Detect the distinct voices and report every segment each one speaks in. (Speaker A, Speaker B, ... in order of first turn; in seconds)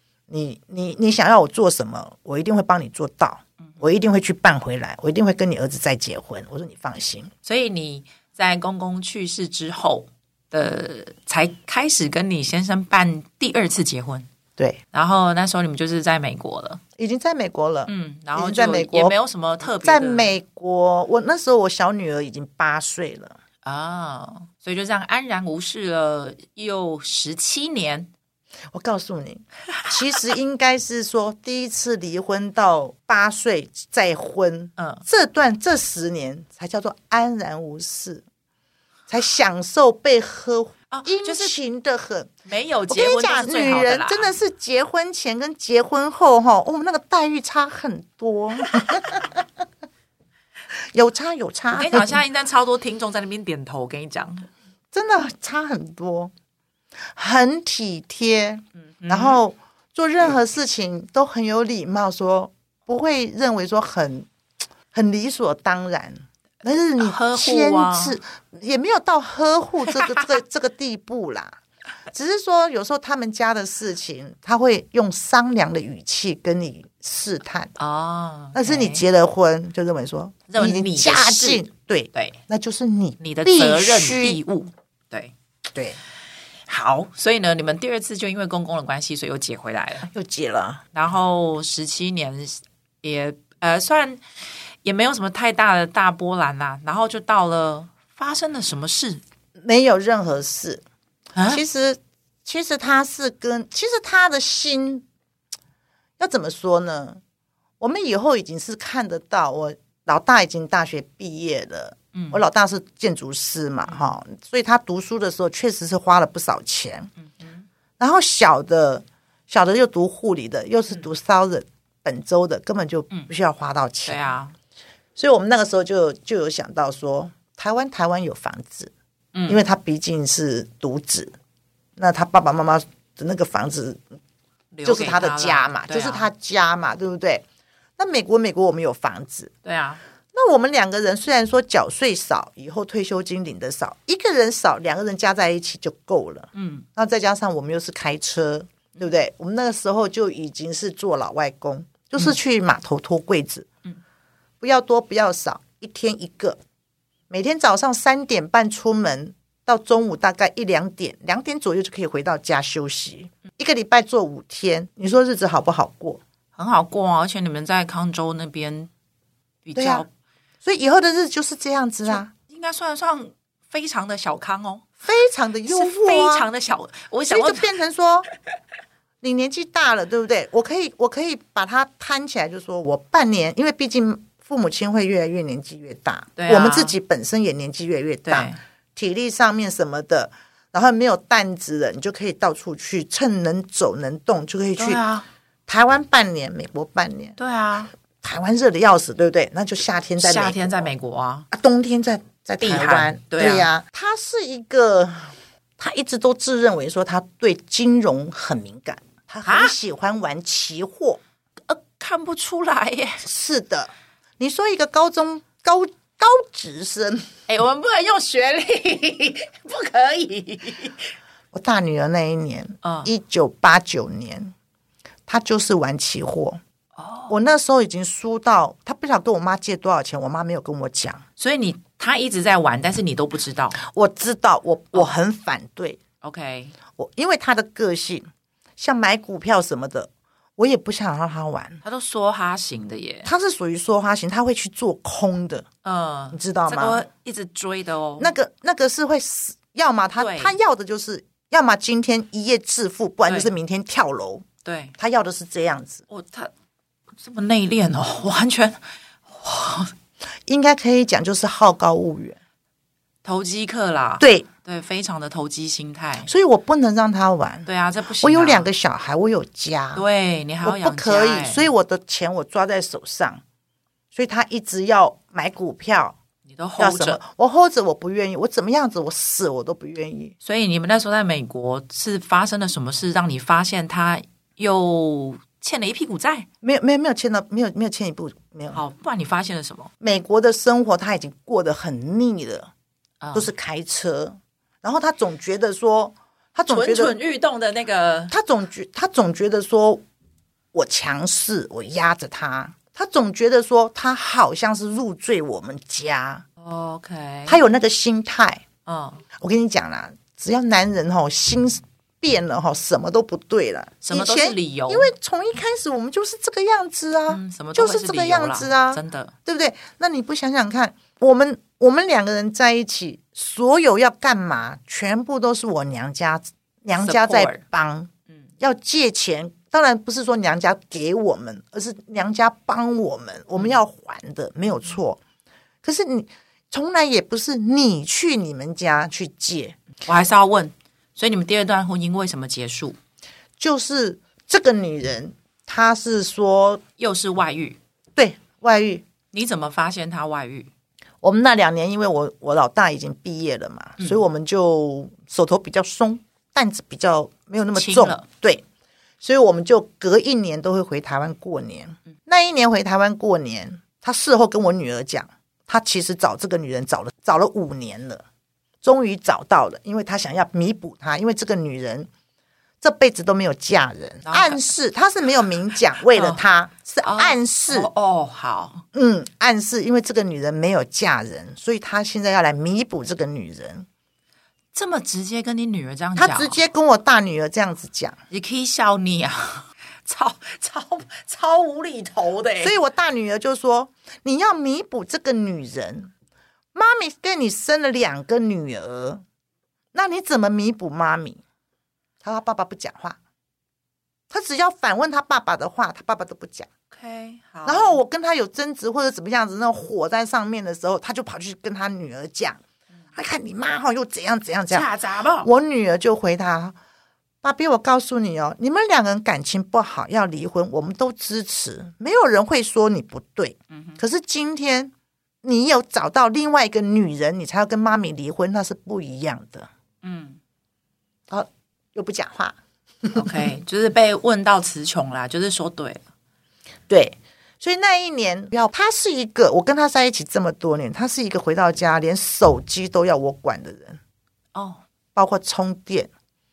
Speaker A: 0.3-7.3, 17.0-23.4, 28.7-38.2, 39.1-42.3, 42.9-49.5, 50.7-52.2, 54.9-56.3, 57.1-64.3, 64.9-71.6, 72.1-77.7, 78.5-84.4, 90.1-90.8, 99.6-100.8, 101.5-105.0, 106.2-107.2, 107.8-117.1, 118.0-124.2, 125.2-128.9, 129.5-131.3, 132.0-134.0, 134.8-137.4, 138.0-139.5, 140.3-153.7, 154.6-156.6, 157.3-166.2, 169.7-170.0, 170.6-172.3, 175.0-176.5, 177.3-178.3, 179.2-195.0, 195.7-197.3, 198.2-200.9, 201.5-211.2, 213.2-217.3, 221.5-224.5, 225.3-226.6, 227.3-231.2, 233.8-236.0, 237.0-238.3, 238.8-241.8, 243.2-245.7, 246.3-247.0, 248.2-254.4, 255.0-256.0, 260.5-262.4, 264.2-264.5, 266.3-267.7, 268.2-270.0, 270.6-273.4, 274.1-276.2, 276.8-280.3, 286.6-288.8, 290.0-292.7, 293.3-297.1, 298.3-300.0, 300.7-306.4, 307.5-308.6, 309.4-335.2, 335.8-339.8, 343.6-346.8, 348.1-349.1, 351.2-358.6, 359.2-368.2, 368.8-372.1, 372.8-377.9, 378.9-383.9, 386.1-388.2, 392.6-396.1, 396.7-399.2, 399.9-401.4, 402.2-403.2, 404.3-406.7, 407.6-412.6, 413.1-414.9, 415.4-416.8, 417.4-429.7, 431.3-433.4, 436.9-444.0, 445.1-446.1
Speaker B: 7.4-14.3, 14.9-16.8, 17.9-20.3, 23.6-28.1, 34.8-35.0, 40.9-41.5, 42.5-44.3, 51.7-54.5, 59.0-59.4, 67.0-68.2, 70.0-70.3, 77.8-79.0, 80.5-82.4, 83.2-85.3, 86.7-90.1, 90.9-94.2, 94.8-99.2, 101.3-101.6, 112.1-112.4, 113.9-114.1, 117.2-117.7, 124.0-124.5, 129.3-129.6, 134.7-136.3, 139.6-140.0, 146.5-146.8, 166.6-168.9, 169.6-170.1, 172.1-174.8, 175.7-177.7, 186.4-186.9, 188.2-188.6, 194.8-195.2, 197.4-197.9, 200.2-201.5, 202.6-203.7, 209.4-209.7, 211.7-213.2, 217.5-221.0, 222.8-223.1, 226.9-227.3, 231.4-233.8, 236.2-236.8, 241.8-243.3, 245.8-248.3, 250.2-250.6, 254.6-254.9, 256.1-256.5, 257.2-259.9, 263.2-266.3, 267.6-268.7, 269.9-271.6, 276.4-277.2, 280.4-286.5, 288.7-289.9, 293.2-293.5, 296.7-298.3, 306.6-307.6, 308.8-309.2, 314.0-315.1, 317.3-319.3, 327.0-327.6, 340.0-343.0, 347.0-347.8, 349.3-350.7, 357.7-358.2, 374.2-374.6, 376.1-376.4, 377.0-378.8, 384.7-386.6, 388.3-392.7, 406.9-408.0, 414.7-415.5, 423.7-424.0, 430.0-430.4, 433.1-436.0, 444.5-444.8